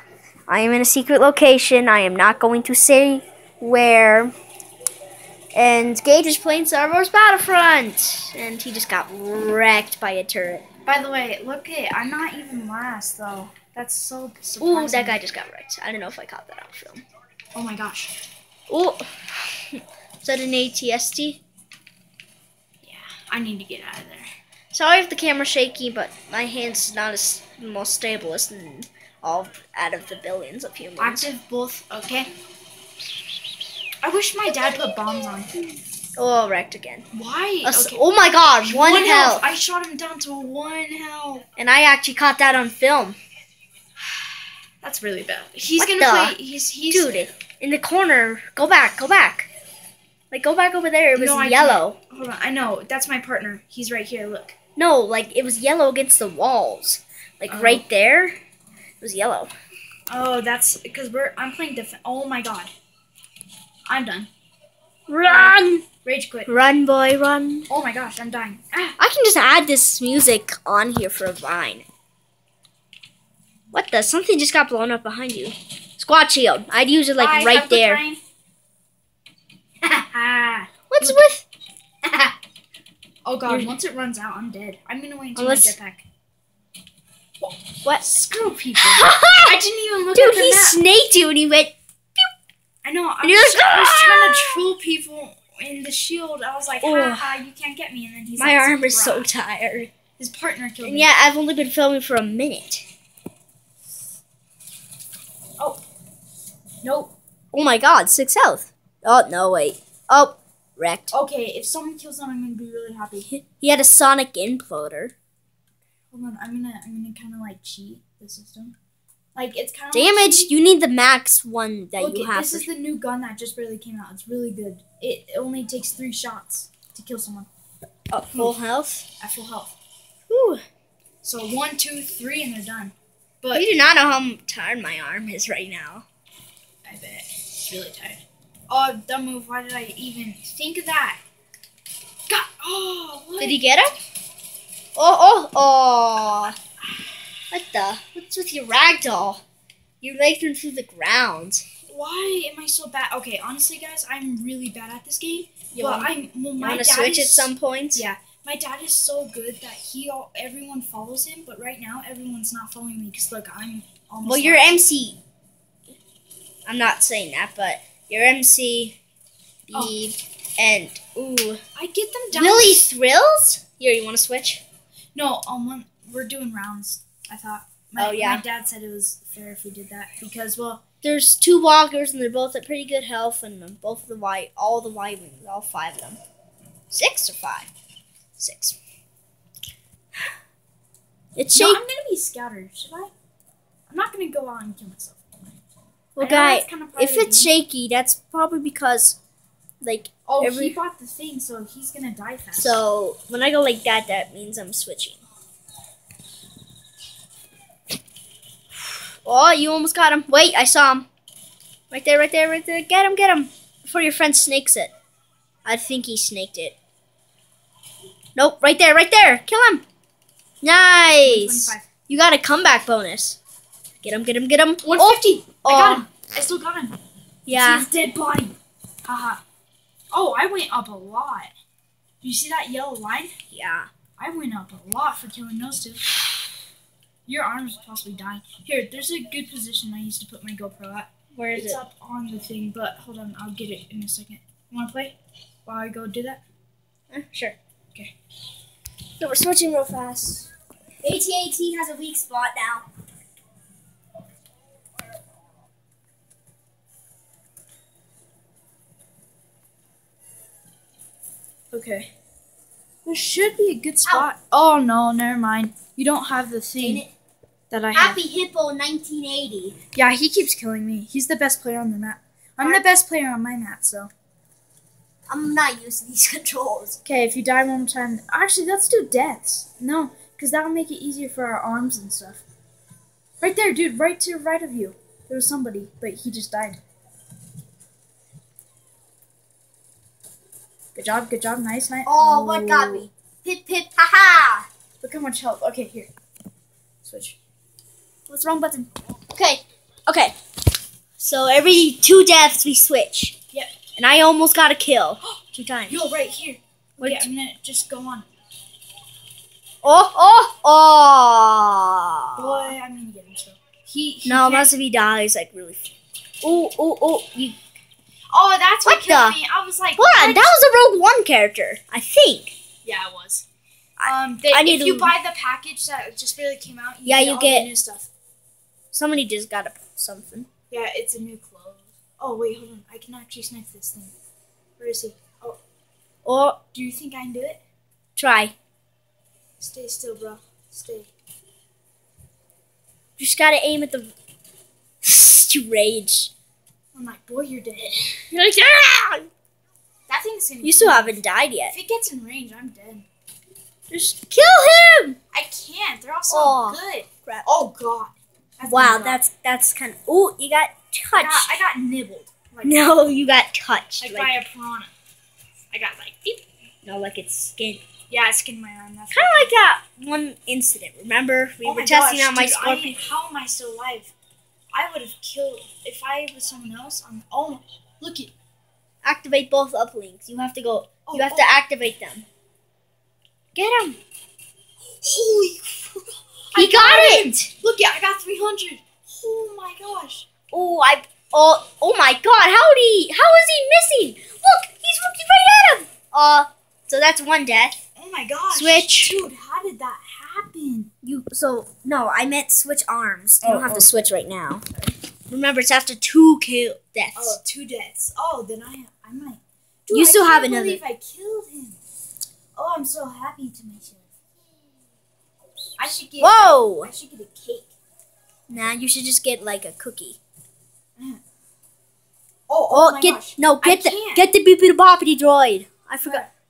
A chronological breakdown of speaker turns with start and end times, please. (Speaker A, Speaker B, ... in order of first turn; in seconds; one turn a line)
Speaker A: 0.5-4.3
Speaker A: 5.5-10.6
Speaker B: 10.8-15.2
Speaker A: 14.6-17.0
Speaker B: 17.5-18.1
Speaker A: 18.7-21.4
Speaker B: 22.8-24.3
Speaker A: 24.7-31.3
Speaker B: 31.0-32.3
Speaker B: 34.0-35.5
Speaker A: 36.2-37.1
Speaker B: 37.1-38.0
Speaker A: 37.6-39.5
Speaker B: 38.6-41.4
Speaker A: 41.6-43.2
Speaker B: 44.8-47.1
Speaker A: 45.8-46.4
Speaker A: 46.9-49.5
Speaker A: 50.3-52.0
Speaker B: 51.1-54.5
Speaker A: 54.8-58.4
Speaker B: 57.5-57.8
Speaker A: 59.0-59.5
Speaker B: 60.1-62.7
Speaker B: 63.9-64.3
Speaker A: 65.1-65.8
Speaker B: 66.0-66.5
Speaker A: 66.5-67.7
Speaker B: 67.7-69.0
Speaker A: 69.0-71.8
Speaker A: 73.7-78.0
Speaker B: 77.2-78.2
Speaker B: 79.8-81.2
Speaker A: 80.9-81.4
Speaker B: 83.2-86.0
Speaker A: 85.3-85.7
Speaker B: 87.4-90.8
Speaker A: 87.8-88.2
Speaker A: 88.8-89.6
Speaker A: 90.1-91.7
Speaker B: 92.8-99.3
Speaker A: 93.2-94.6
Speaker A: 96.8-97.4
Speaker A: 98.4-99.9
Speaker B: 100.2-101.1
Speaker A: 100.8-102.8
Speaker B: 106.8-107.1
Speaker A: 107.5-111.1
Speaker B: 111.1-113.3
Speaker A: 113.3-115.1
Speaker B: 116.1-118.7
Speaker B: 119.3-120.5
Speaker A: 119.9-122.7
Speaker B: 122.0-127.5
Speaker A: 128.1-129.1
Speaker B: 129.2-129.7
Speaker A: 130.3-130.6
Speaker B: 131.2-133.7
Speaker A: 133.5-136.0
Speaker B: 136.8-141.2
Speaker B: 142.3-143.6
Speaker A: 143.4-143.9
Speaker A: 144.9-146.6
Speaker A: 147.5-149.4
Speaker A: 150.0-151.6
Speaker B: 151.9-164.8
Speaker A: 155.7-158.0
Speaker A: 164.2-165.2
Speaker A: 166.7-169.0
Speaker A: 169.7-171.6
Speaker B: 171.8-172.9
Speaker A: 172.3-174.6
Speaker B: 175.1-180.8
Speaker A: 178.0-178.4
Speaker A: 181.0-186.2
Speaker A: 186.9-187.7
Speaker A: 188.4-188.8
Speaker A: 191.3-191.8
Speaker B: 191.5-193.1
Speaker B: 193.9-195.6
Speaker A: 196.2-199.2
Speaker B: 196.2-197.5
Speaker A: 199.8-200.8
Speaker B: 200.3-202.8
Speaker A: 202.5-205.2
Speaker A: 209.2-211.1
Speaker A: 211.9-214.9
Speaker A: 215.6-216.7
Speaker A: 218.3-219.8
Speaker A: 220.6-223.4
Speaker B: 221.2-221.9
Speaker A: 224.0-226.0
Speaker B: 224.8-227.0
Speaker A: 227.4-227.9
Speaker B: 227.5-229.4
Speaker B: 230.1-231.5
Speaker B: 232.2-233.3
Speaker A: 233.5-233.9
Speaker B: 234.2-236.3
Speaker B: 237.2-245.1
Speaker A: 241.3-241.8
Speaker B: 245.7-246.4
Speaker A: 247.1-247.6
Speaker A: 249.2-250.5
Speaker A: 251.0-252.8
Speaker B: 261.7-262.1
Speaker B: 263.0-267.0
Speaker A: 266.8-267.1
Speaker B: 267.7-268.2
Speaker A: 267.9-269.8
Speaker B: 269.9-274.1
Speaker A: 275.3-277.0
Speaker B: 277.0-282.4
Speaker B: 283.4-286.8
Speaker B: 290.9-293.1
Speaker A: 292.1-294.7
Speaker B: 295.0-296.1
Speaker B: 297.0-297.4
Speaker B: 298.3-298.9
Speaker A: 299.3-300.3
Speaker A: 301.2-303.4
Speaker A: 303.9-306.0
Speaker B: 305.9-308.3
Speaker A: 307.0-307.3
Speaker A: 309.8-312.7
Speaker B: 312.4-314.7
Speaker A: 314.2-317.6
Speaker B: 318.3-320.6
Speaker A: 318.9-319.4
Speaker A: 320.0-322.6
Speaker B: 322.8-323.4
Speaker A: 324.0-325.1
Speaker B: 324.0-328.1
Speaker A: 327.0-327.7
Speaker A: 328.9-330.5
Speaker B: 330.7-334.1
Speaker B: 334.8-335.6
Speaker A: 336.2-336.6
Speaker B: 336.7-337.6
Speaker A: 338.1-338.5
Speaker B: 339.6-341.1
Speaker A: 343.2-344.1
Speaker A: 345.0-346.3
Speaker B: 346.9-348.2
Speaker A: 348.3-349.3
Speaker B: 350.1-353.1
Speaker A: 350.6-351.8
Speaker A: 353.9-355.2
Speaker B: 355.3-359.2
Speaker A: 356.3-357.4
Speaker A: 358.6-361.5
Speaker B: 361.1-362.9
Speaker A: 362.6-364.4
Speaker B: 364.0-364.9
Speaker B: 365.7-366.4
Speaker A: 366.8-367.8
Speaker B: 368.1-369.5
Speaker A: 369.1-373.0
Speaker B: 371.6-374.1
Speaker B: 374.7-378.3
Speaker A: 379.0-382.2
Speaker B: 381.1-381.5
Speaker A: 383.5-384.0
Speaker B: 384.9-390.3
Speaker A: 386.5-387.4
Speaker A: 390.5-397.8
Speaker B: 397.9-400.9
Speaker A: 398.5-399.2
Speaker A: 401.0-407.4
Speaker B: 403.4-403.9
Speaker B: 407.1-411.8
Speaker A: 409.9-410.8
Speaker B: 412.5-414.1
Speaker B: 415.8-417.7
Speaker A: 416.2-416.9
Speaker A: 418.5-420.2
Speaker B: 420.9-421.2
Speaker B: 422.5-424.3
Speaker A: 422.7-426.2
Speaker B: 426.0-426.3